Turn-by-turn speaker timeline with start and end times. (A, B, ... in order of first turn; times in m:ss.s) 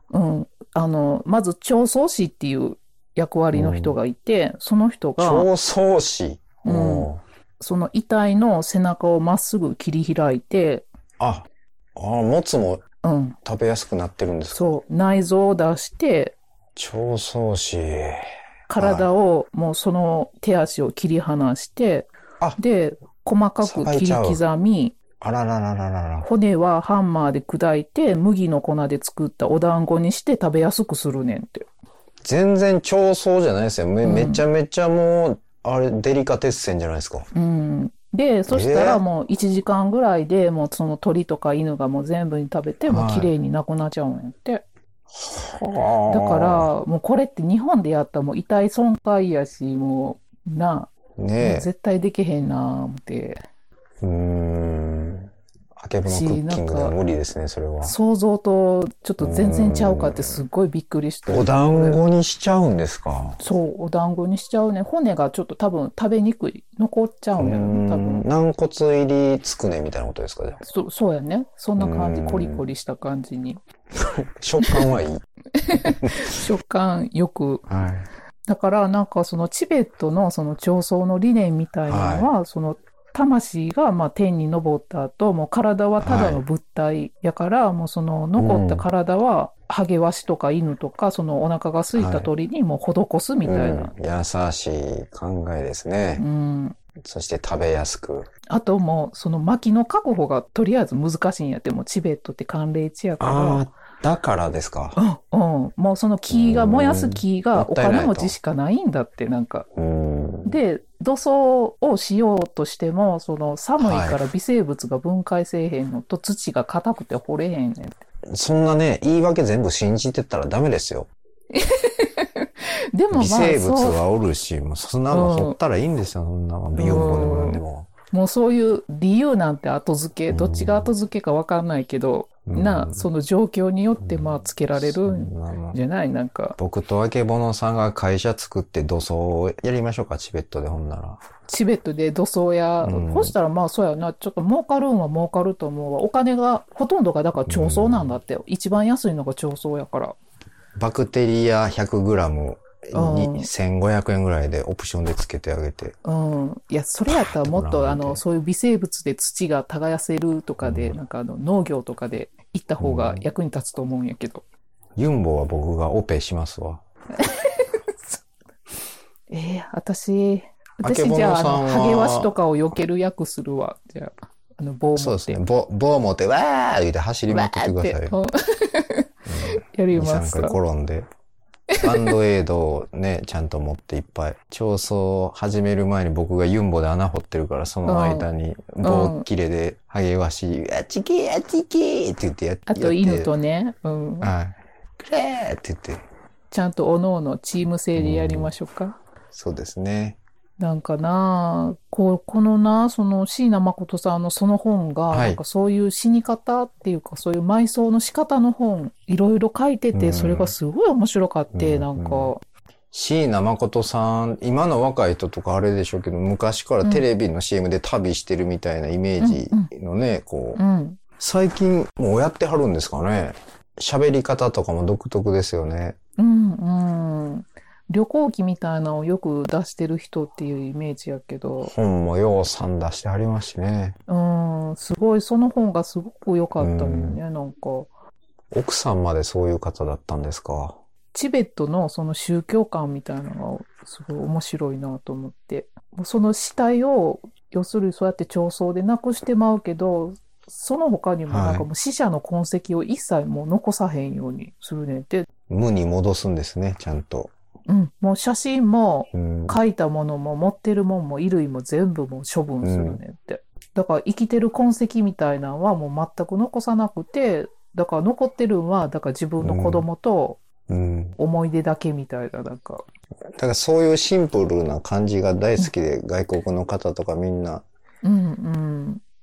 0:00.1-0:05.5 A
0:03.5-0:04.0 B
0:05.2-0:07.2 B
0:06.6-0:10.9 A
0:11.2-0:12.8 B
0:13.0-0:13.4 A
0:13.4-0:14.8 B
0:14.5-0:16.4 A
0:16.8-0:18.2 B
0:18.7-0:25.0 A
0:18.8-0:19.1 B
0:23.6-0:24.4 B
0:25.2-0:26.3 B
0:26.2-0:31.7 A
0:32.2-0:37.3 B
0:34.0-0:34.4 A
0:37.3-0:44.6 A
0:38.5-0:39.0 B
0:42.9-0:43.3 B
0:45.1-0:46.7 B
0:46.1-0:53.4 A
0:51.2-0:51.7 B
0:54.0-0:58.0 B
0:56.0-0:57.0 A
0:57.8-1:02.0 A
0:59.2-1:00.4 B
1:01.3-1:03.4 B
1:03.4-1:08.2 A
1:07.4-1:10.6 B
1:10.6-1:13.6 A
1:11.8-1:12.6 B
1:13.9-1:15.2 B
1:14.6-1:14.9 A
1:15.6-1:17.6 A
1:15.7-1:16.3 B
1:17.7-1:18.1 B
1:18.5-1:33.9 A
1:21.9-1:22.3 B
1:26.0-1:26.4 B
1:28.4-1:28.8 B
1:32.0-1:32.3 B
1:33.4-1:36.2 B
1:36.2-1:36.8 A
1:37.0-1:38.3 B
1:38.5-1:43.6 A
1:43.2-1:45.0 B
1:45.0-1:49.7 A
1:46.3-1:48.4 B
1:49.7-1:50.6 B
1:50.4-1:58.0 A
1:53.8-1:54.2 B
1:58.3-2:01.1 B
2:01.5-2:04.0 A
2:03.1-2:07.9 B
2:05.1-2:05.6 A
2:06.8-2:07.6 A
2:08.1-2:16.6 A
2:10.3-2:10.9 B
2:12.4-2:13.0 B
2:14.0-2:15.8 B
2:16.6-2:21.2 B
2:21.5-2:30.2 A
2:22.8-2:23.3 B
2:27.5-2:28.2 B
2:30.8-2:36.0 B
2:32.9-2:33.5 A
2:36.0-2:44.4 A
2:37.1-2:38.2 B
2:40.6-2:41.0 B
2:42.8-2:43.2 B
2:45.0-2:46.8 B
2:47.2-2:48.2 A
2:49.3-2:55.4 A
2:50.8-2:52.3 B
2:55.0-2:58.1 B
2:57.3-3:00.6 A
2:59.3-3:01.1 B
3:01.7-3:02.1 A
3:01.8-3:13.3 B
3:07.9-3:08.3 A
3:08.8-3:09.2 A
3:12.7-3:14.3 A
3:14.2-3:16.0 B
3:16.5-3:19.0 A
3:18.0-3:18.5 B
3:19.3-3:20.2 B
3:20.6-3:32.4 A
3:25.1-3:25.4 B
3:29.9-3:30.5 B
3:31.5-3:32.3 B
3:32.9-3:40.6 B
3:39.2-3:39.7 A
3:40.6-3:41.0 A
3:41.2-3:46.0 B
3:46.2-3:51.7 A
3:51.6-3:54.0 B
3:54.1-3:57.9 A
3:56.6-3:57.2 B
3:58.5-4:00.8 B
4:01.1-4:15.3 A
4:11.3-4:11.7 B
4:15.5-4:17.3 B
4:17.7-4:30.4 A
4:19.1-4:19.6 B
4:22.6-4:23.0 B
4:29.4-4:29.8 B
4:30.7-4:31.2 B
4:31.2-4:32.8 A
4:33.4-4:37.6 B
4:38.0-4:39.0 A